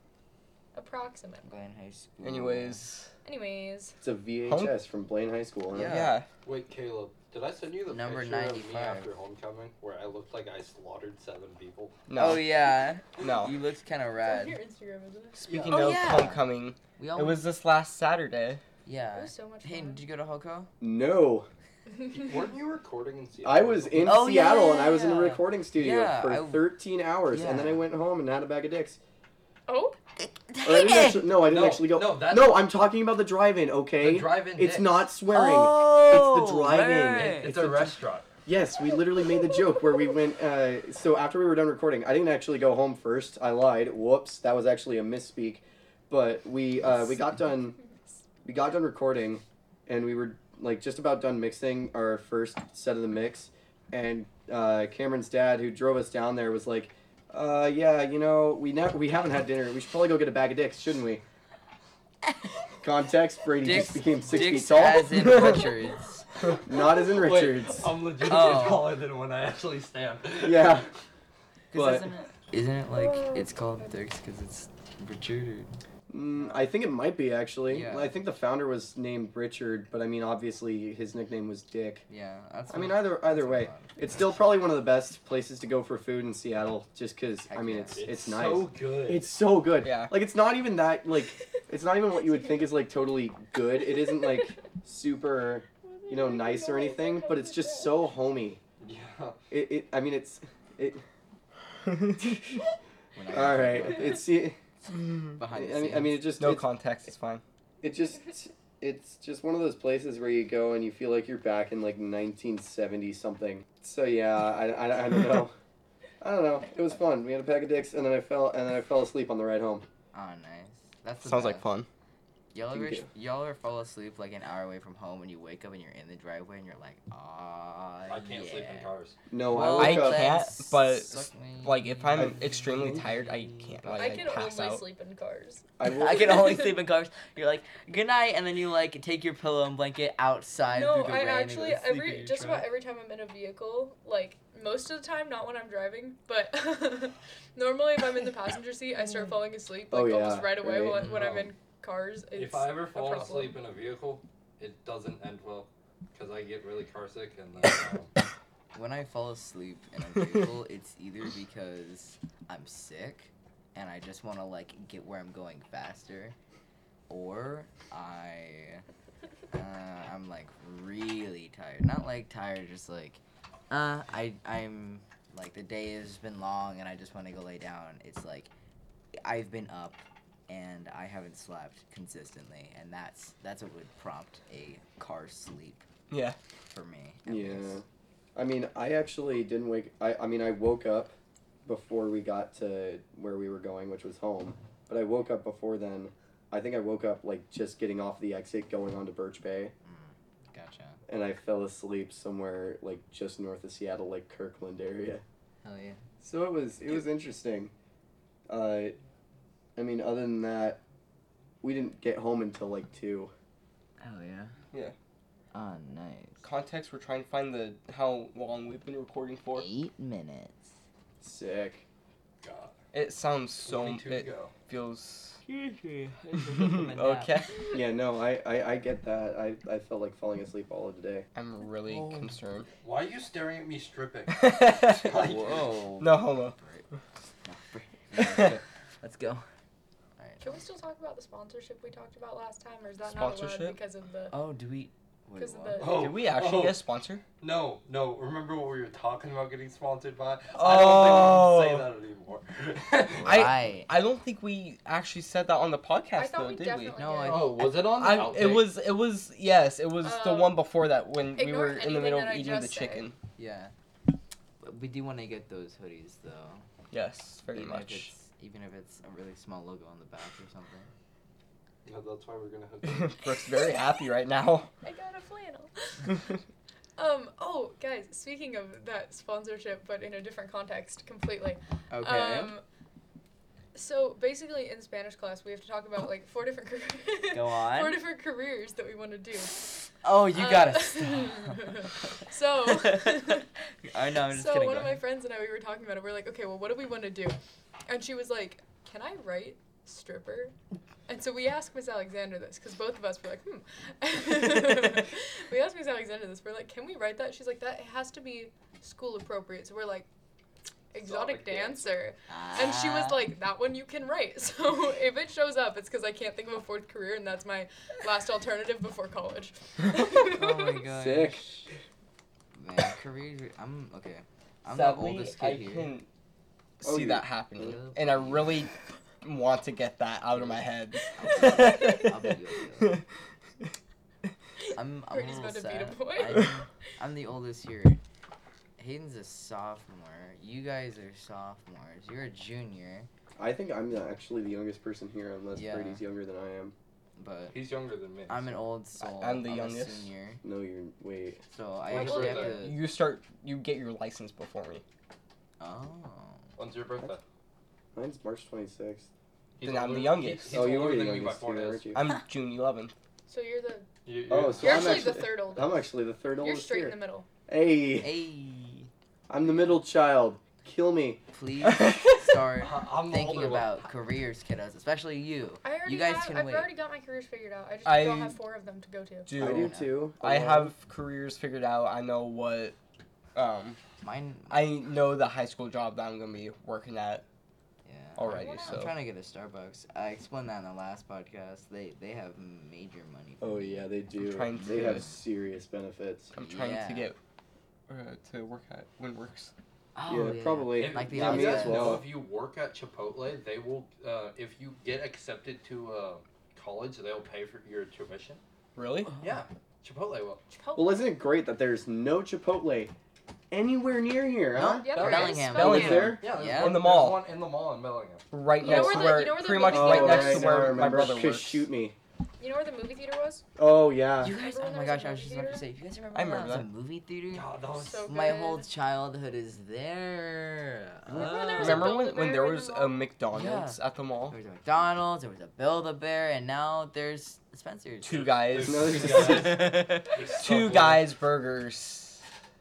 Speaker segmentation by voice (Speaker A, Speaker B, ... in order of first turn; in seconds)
Speaker A: 0.7-1.4, 3.2-4.0, 14.2-16.2, 19.1-20.0, 29.7-30.0, 38.8-40.1, 72.9-74.0, 94.0-94.4, 95.8-98.0, 133.9-135.7, 136.2-136.7, 140.7-153.6, 240.4-244.4, 245.4-246.1, 256.1-257.6, 260.0-260.6, 261.3-263.1, 273.6-274.0, 274.8-276.3, 277.0-282.6, 283.7-289.5, 290.3-293.5, 294.2-297.4, 297.9-300.5, 301.1-310.1, 310.9-320.8, 331.5-332.0, 335.1-336.6, 351.9-352.7, 363.3-363.9, 364.6-367.3, 375.6-379.3, 388.3-388.8, 410.5-411.1, 414.6-416.1, 418.6-421.0, 422.4-423.4, 424.3-425.7, 427.7-428.7, 431.1-433.1
Speaker B: 1.4-2.8, 5.7-6.2, 7.9-9.1, 12.1-14.6, 15.5-16.4, 17.0-17.4, 18.8-20.7, 23.9-26.7, 27.3-27.8, 30.2-31.4, 35.3-37.6, 63.6-66.2, 68.2-68.9, 71.7-75.8, 77.7-78.1, 82.1-84.3, 87.5-88.1, 103.1-104.2, 105.4-106.2, 120.1-121.7, 122.5-128.9, 129.5-134.4, 135.8-142.7, 150.9-151.5, 158.7-166.3, 167.1-168.8, 169.5-178.5, 179.2-185.8, 186.7-187.8, 199.8-201.0, 205.6-206.0, 214.0-214.5, 215.5-216.4, 219.5-220.7, 225.4-227.3, 231.8-232.3, 235.0-236.8, 237.4-239.4, 240.2-240.6, 244.3-246.0, 253.2-253.9, 256.9-258.6, 263.4-263.7, 264.6-266.6, 267.5-270.9, 281.9-282.6, 287.3-288.0, 290.0-291.9, 292.6-295.0, 312.3-313.2, 320.2-321.7, 322.5-325.9, 327.6-328.6, 331.1-333.0, 334.8-338.0, 338.8-343.1, 345.5-346.0, 347.2-347.6, 348.3-350.4, 351.5-352.8, 355.6-356.4, 368.0-368.9, 371.3-376.7, 379.4-379.9, 384.0-384.7, 387.8-393.9, 394.6-395.1, 396.4-397.1, 399.9-402.0, 414.5-416.8, 424.2-431.9, 433.3-433.8, 434.3-438.4, 439.1-440.2
Speaker C: 2.2-3.1, 4.5-4.7, 5.8-6.2, 12.1-12.5, 13.2-13.6, 15.4-18.6, 89.8-90.1, 106.4-107.4, 121.2-121.9, 129.6-134.8, 186.1-186.4, 216.4-219.7, 222.9-225.4, 226.5-227.6, 231.3-232.7, 234.3-236.6, 238.2-238.6, 243.0-243.8, 245.9-247.2, 250.5-251.9, 253.2-257.0, 257.6-263.1, 266.9-268.1, 272.8-274.7, 324.6-326.1, 326.8-333.0, 349.0-350.1, 352.2-354.8, 359.6-360.8, 361.9-362.9, 371.7-372.4, 377.8-378.4, 379.3-382.7, 383.3-383.8, 384.5-387.2, 388.2-388.9, 394.2-395.1, 396.3-397.2, 397.9-399.5, 408.8-409.1, 415.0-417.2, 418.3-421.7, 426.1-426.7, 431.5-434.4, 438.0-439.7, 440.3-442.2
Speaker D: 4.0-6.0, 20.8-21.5, 23.4-29.0, 30.6-47.8, 48.4-61.2, 62.8-65.7, 66.6-67.9, 70.4-70.9, 71.7-72.0, 76.1-82.0, 82.7-98.6, 99.5-101.0, 102.2-102.6, 103.3-104.6, 105.5-106.7, 107.8-115.5, 116.2-119.8, 122.7-123.0, 129.3-130.4, 135.8-136.5, 149.9-151.3, 187.3-191.1, 191.6-199.7, 201.1-205.2, 206.2-207.7, 208.5-209.0, 209.8-210.8, 211.6-213.3, 221.2-221.8, 227.7-231.3, 320.9-321.6, 326.8-327.8, 343.4-346.7, 350.4-351.4, 357.9-359.1, 360.5-362.0, 364.3-367.0, 367.5-368.2, 369.3-371.2, 379.4-380.7, 393.4-396.3, 400.1-402.1, 410.8-412.9, 413.5-416.2, 418.6-421.9, 423.6-424.3, 438.6-439.7
Speaker E: 6.4-12.0, 22.1-24.0, 31.4-32.6, 34.0-35.0, 37.2-38.3, 67.0-70.8, 88.0-89.2, 98.8-99.4, 128.1-129.2, 152.3-158.1, 222.4-222.7, 223.6-224.5, 232.8-235.8, 245.8-246.8, 247.4-253.5, 257.2-258.7, 271.9-273.2, 311.0-311.9, 347.5-348.6, 351.9-352.6, 356.6-357.2, 359.6-361.9, 364.0-365.1, 372.6-373.8, 400.7-408.4, 409.2-410.4, 415.2-418.3, 427.3-428.1, 438.1-441.1